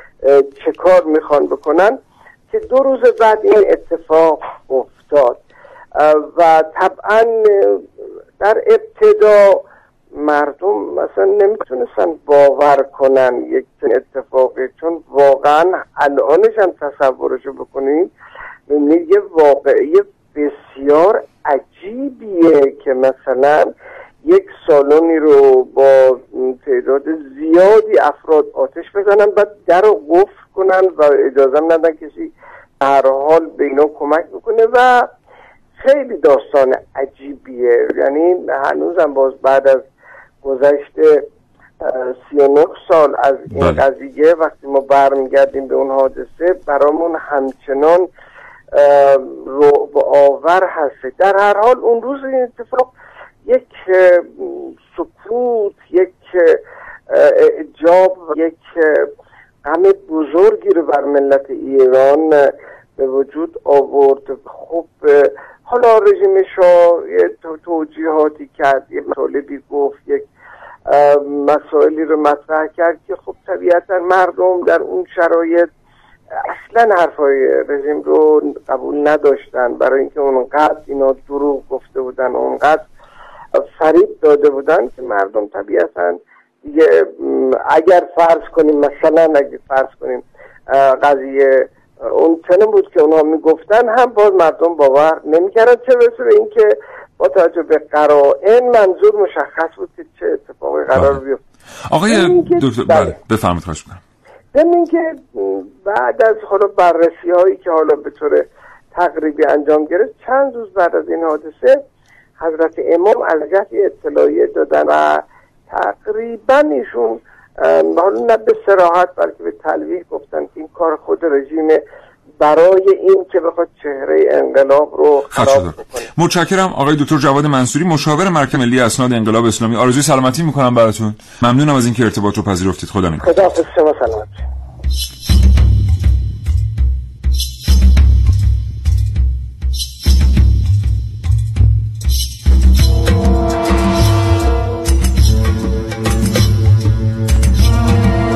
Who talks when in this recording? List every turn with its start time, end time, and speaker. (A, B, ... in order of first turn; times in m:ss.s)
0:00.2-0:02.0 A
0:02.5-0:05.4 A
0:06.0-0:07.8 A
0:08.4-0:09.6 A
0:10.2-0:18.1 A
0:18.7-0:23.7 A
0:24.2-0:35.0 A
0:35.8-0:39.8 A
0:40.4-0:41.2 A
0:41.8-0:48.1 A
0:43.5-0:43.8 B
0:48.7-0:52.9 A
0:53.4-0:59.1 A
0:59.6-1:02.4 A
1:03.0-1:10.2 A
1:10.9-1:15.7 A
1:16.4-1:22.8 A
1:23.6-1:36.7 A
1:37.2-1:41.4 A
1:40.9-1:41.2 B
1:41.9-1:44.0 B
1:42.1-1:43.1 A
1:44.5-1:51.7 A
1:52.4-1:55.1 A
1:55.7-2:01.8 A
2:02.4-2:06.0 A
2:05.3-2:13.3 B
2:13.2-2:14.4 A